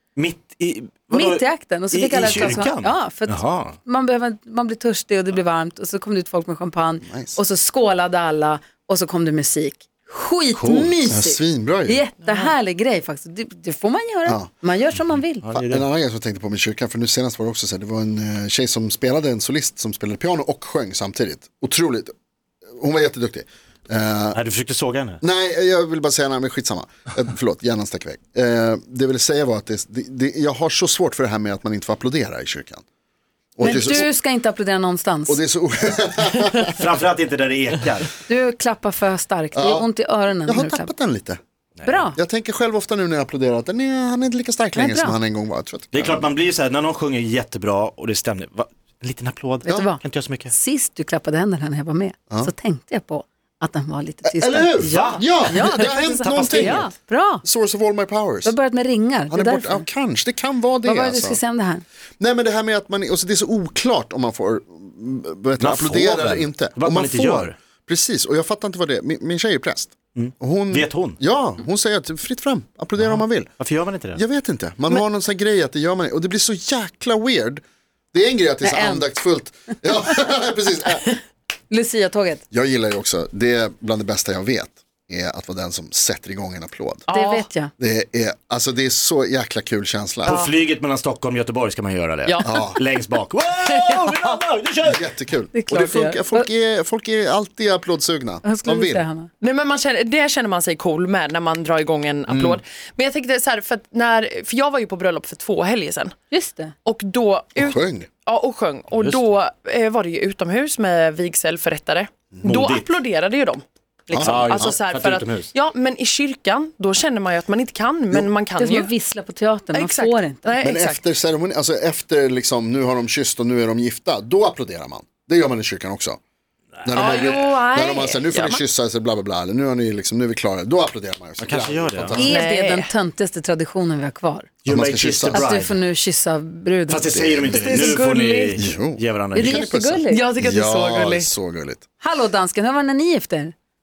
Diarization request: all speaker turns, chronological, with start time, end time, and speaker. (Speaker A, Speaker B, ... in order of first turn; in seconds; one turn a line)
Speaker A: 0.2-3.8
Speaker B: 1.1-15.5
Speaker C: 2.2-2.6
Speaker C: 7.0-7.4
Speaker A: 10.5-11.1
Speaker C: 10.7-12.0
Speaker D: 12.2-12.5
Speaker A: 15.4-15.8
Speaker C: 15.6-22.1
Speaker C: 22.8-24.4
Speaker A: 24.3-25.2
Speaker C: 25.2-32.8
Speaker C: 33.6-34.1
Speaker B: 33.6-35.4
Speaker C: 35.3-36.8
Speaker A: 36.7-38.1
Speaker B: 38.3-40.9
Speaker C: 39.5-39.9
Speaker C: 40.5-41.4
Speaker B: 41.9-42.2
Speaker C: 42.2-46.3
Speaker B: 44.7-45.2
Speaker A: 45.9-50.5
Speaker B: 49.7-54.8
Speaker C: 54.3-56.9
Speaker D: 54.8-56.4
Speaker A: 54.9-55.2
Speaker B: 55.5-57.4
Speaker A: 56.3-56.8
Speaker C: 57.4-58.6
Speaker B: 58.4-59.9
Speaker C: 59.3-61.4
Speaker B: 60.8-61.8
Speaker C: 62.2-73.5
Speaker A: 65.6-67.5
Speaker A: 70.2-71.2
Speaker A: 73.0-74.2
Speaker C: 74.1-77.6
Speaker C: 78.1-81.1
Speaker B: 78.6-79.1
Speaker B: 81.7-82.4
Speaker C: 82.5-87.1
Speaker D: 87.1-87.5
Speaker B: 87.1-87.7
Speaker C: 87.8-90.4
Speaker D: 90.2-90.5
Speaker A: 90.2-95.1
Speaker D: 92.2-92.6
Speaker C: 92.4-92.8
Speaker D: 93.6-94.4
Speaker C: 94.9-99.0
Speaker B: 95.5-96.5
Speaker B: 98.4-99.3
Speaker D: 99.4-106.2
Speaker B: 106.3-106.8
Speaker D: 106.8-118.9
Speaker C: 107.6-108.1
Speaker A: 109.0-109.3
Speaker A: 112.4-112.9
Speaker C: 114.1-114.7
Speaker A: 114.2-115.5
Speaker B: 118.6-120.5
Speaker D: 119.7-121.0
Speaker C: 120.6-126.2
Speaker C: 126.8-132.4
Speaker D: 126.9-128.6
Speaker A: 131.4-132.3
Speaker B: 132.1-134.5
Speaker D: 132.2-132.9
Speaker A: 134.7-135.8
Speaker C: 134.7-135.5
Speaker B: 135.3-137.2
Speaker A: 136.9-139.7
Speaker C: 137.0-137.9
Speaker D: 137.5-138.6
Speaker C: 138.6-141.8
Speaker B: 139.3-140.2
Speaker D: 140.1-141.3
Speaker B: 142.0-143.5